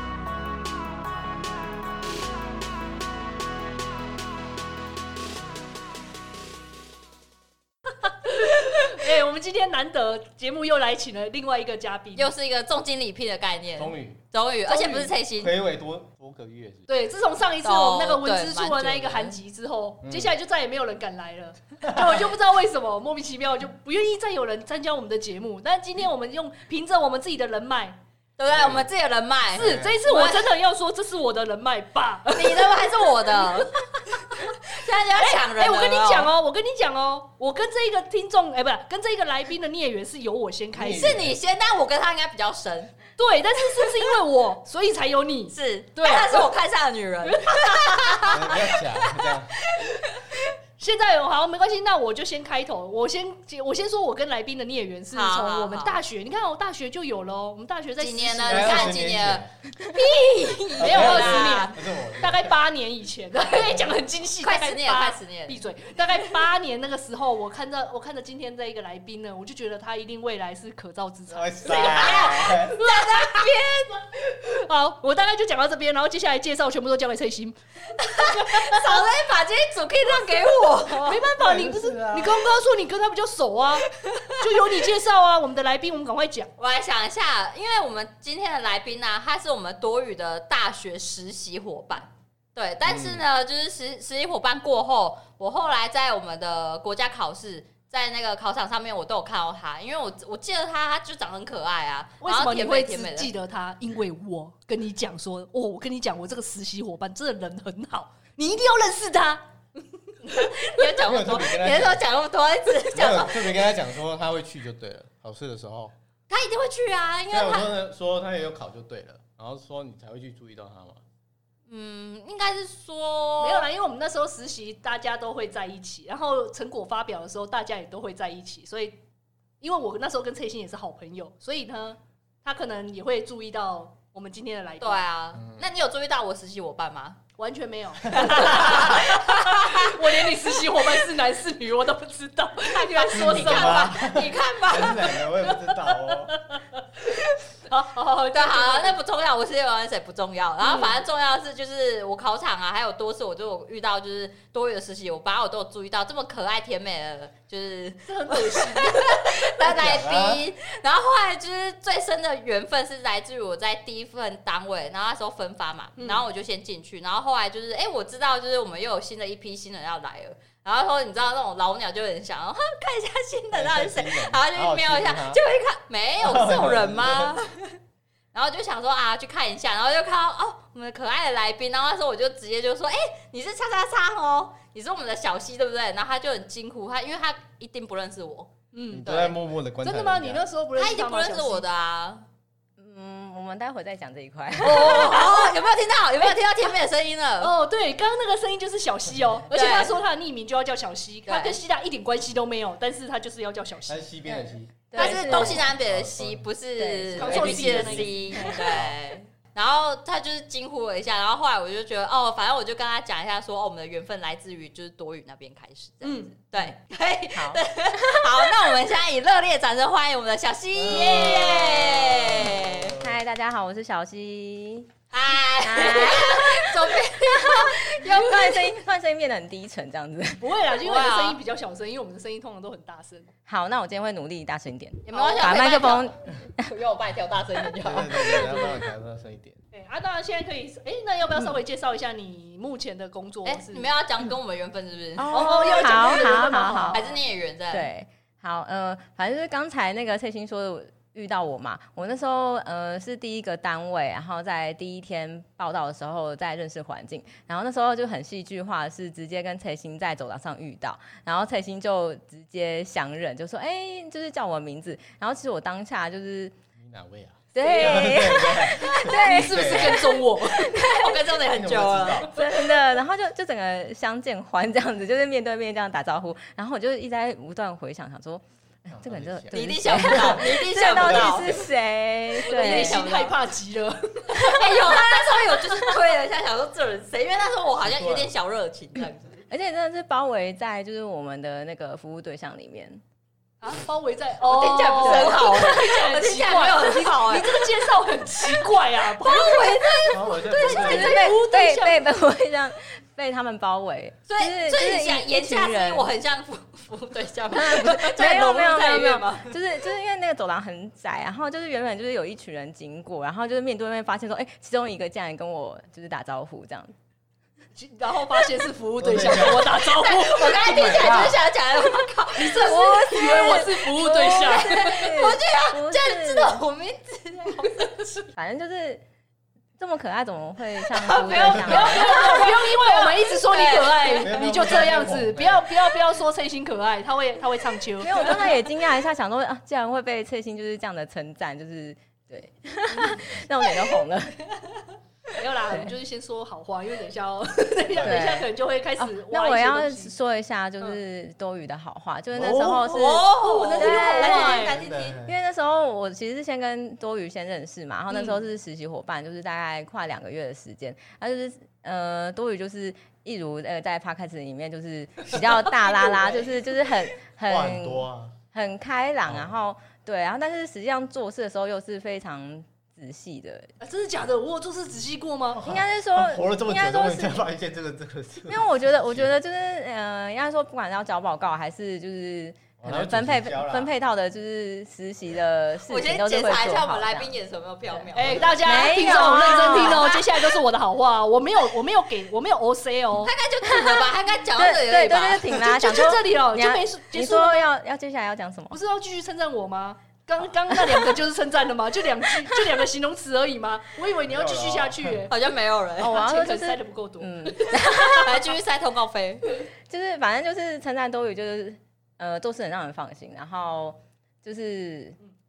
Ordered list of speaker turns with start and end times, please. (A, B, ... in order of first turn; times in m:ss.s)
0:08.0-0:12.3 A
0:12.2-0:15.5 B
0:13.8-0:14.2 C
0:14.6-0:15.1 A
0:15.4-0:16.9 C
0:16.9-0:28.0 A
0:17.6-0:19.4 B
0:20.0-0:20.3 C
0:21.9-0:22.2 C
0:28.4-0:30.5 B
0:28.5-0:28.9 C
0:29.5-0:30.0 C
0:29.5-0:34.6 A
0:32.3-0:36.3 B
0:35.1-0:41.2 A
0:40.7-0:41.4 C
0:40.8-0:42.9 B
0:43.2-0:46.5 A
0:45.5-0:49.8 B
0:47.2-0:48.5 A
0:48.3-0:49.5 C
0:50.8-0:59.1 A
0:55.1-0:56.0 B
0:58.0-1:01.8 B
0:58.4-0:59.5 C
1:00.8-1:02.5 C
1:00.8-1:19.1 A
1:04.4-1:05.6 B
1:11.3-1:12.8 C
1:11.6-1:14.0 B
1:18.0-1:21.3 B
1:20.1-1:26.5 A
1:21.4-1:22.5 C
1:24.0-1:24.7 B
1:26.6-1:43.3 B
1:32.8-1:33.2 C
1:42.2-1:50.9 A
1:50.3-1:53.7 B
1:51.0-1:52.0 C
1:52.9-1:55.9 C
1:56.3-1:57.7 B
1:57.3-2:01.0 C
2:01.7-2:03.7 B
2:03.4-2:09.0 A
2:09.6-2:15.0 A
2:14.8-2:17.2 B
2:15.3-2:15.7 C
2:17.4-2:24.1 A
2:18.1-2:20.9 B
2:22.7-2:25.2 B
2:23.1-2:26.4 C
2:25.2-2:29.0 A
2:28.3-2:57.8 B
2:30.6-2:31.0 A
2:38.0-2:39.4 A
2:39.6-2:40.4 C
2:46.0-2:46.2 A
2:53.5-2:55.4 C
2:56.2-2:57.3 C
2:58.3-3:08.5 B
3:08.7-3:09.1 A
3:08.9-3:10.4 C
3:09.0-3:09.4 B
3:09.8-3:11.6 A
3:10.7-3:12.2 B
3:12.8-3:15.4 D
3:14.6-3:17.5 B
3:17.4-3:25.2 A
3:19.5-3:20.0 B
3:21.3-3:21.6 B
3:23.9-3:26.5 C
3:24.9-3:25.7 D
3:24.9-3:43.0 B
3:26.8-3:27.6 D
3:27.1-3:29.0 C
3:27.2-3:28.7 A
3:36.0-3:36.3 A
3:37.3-3:38.4 D
3:40.7-3:43.1 C
3:40.9-3:41.5 A
3:42.9-3:44.9 D
3:45.1-3:48.7 B
3:45.6-3:50.5 D
3:50.4-3:53.3 A
3:50.8-3:51.4 B
3:53.5-3:56.7 D
3:55.1-3:58.9 B
3:57.8-3:59.6 C
3:59.7-4:03.9 A
4:03.4-4:07.9 B
4:05.2-4:07.0 D
4:05.3-4:07.1 A
4:07.7-4:26.5 D
4:26.8-4:29.9 C
4:27.5-4:31.3 D
4:27.6-4:28.2 A
4:28.6-4:32.4 B
4:29.0-4:30.8 A
4:31.4-4:32.4 C
4:32.3-4:43.0 D
4:38.9-4:41.7 C
4:39.5-4:41.6 B
4:42.4-4:43.4 B
4:42.4-4:45.0 A
4:44.3-4:49.4 B
4:47.8-4:48.3 C
4:49.5-4:53.0 D
4:53.6-5:02.1 A
4:54.4-4:58.7 B
4:55.0-4:55.4 D
4:59.2-5:01.2 B
5:00.1-5:01.2 C
5:00.7-5:06.1 D
5:04.3-5:09.6 B
5:07.5-5:17.0 D
5:17.8-5:21.1 A
5:19.0-5:19.8 C
5:19.7-5:28.1 B
5:20.6-5:21.4 C
5:22.4-5:25.1 A
5:22.6-5:26.6 D
5:28.3-5:29.0 D
5:29.8-5:32.3 D
5:30.8-5:34.4 B
5:31.3-5:38.5 A
5:31.5-5:32.0 C
5:34.2-5:35.6 C
5:38.0-5:44.5 D
5:45.4-5:50.2 A
5:45.7-5:45.9 D
5:47.9-5:48.2 C
5:48.0-5:54.7 D
5:52.3-5:52.9 C
5:52.8-5:55.2 B
5:53.1-5:54.8 A
5:54.7-5:55.3 C
5:55.2-6:13.7 D
5:58.1-5:58.4 A
6:05.8-6:06.5 A
6:07.5-6:08.3 C
6:09.2-6:09.5 C
6:13.8-6:15.6 A
6:15.6-6:19.3 C
6:15.6-6:17.4 D
6:18.5-6:27.3 D
6:22.8-6:23.9 C
6:25.9-6:30.6 B
6:27.9-6:30.1 D
6:28.1-6:33.3 A
6:33.2-6:35.5 B
6:33.6-6:38.8 D
6:35.5-6:37.7 A
6:38.7-6:45.3 A
6:44.2-6:45.3 C
6:45.3-6:46.2 B
6:46.0-6:48.3 D
6:46.0-6:48.3 A
6:47.9-6:49.6 B
6:49.9-6:55.2 D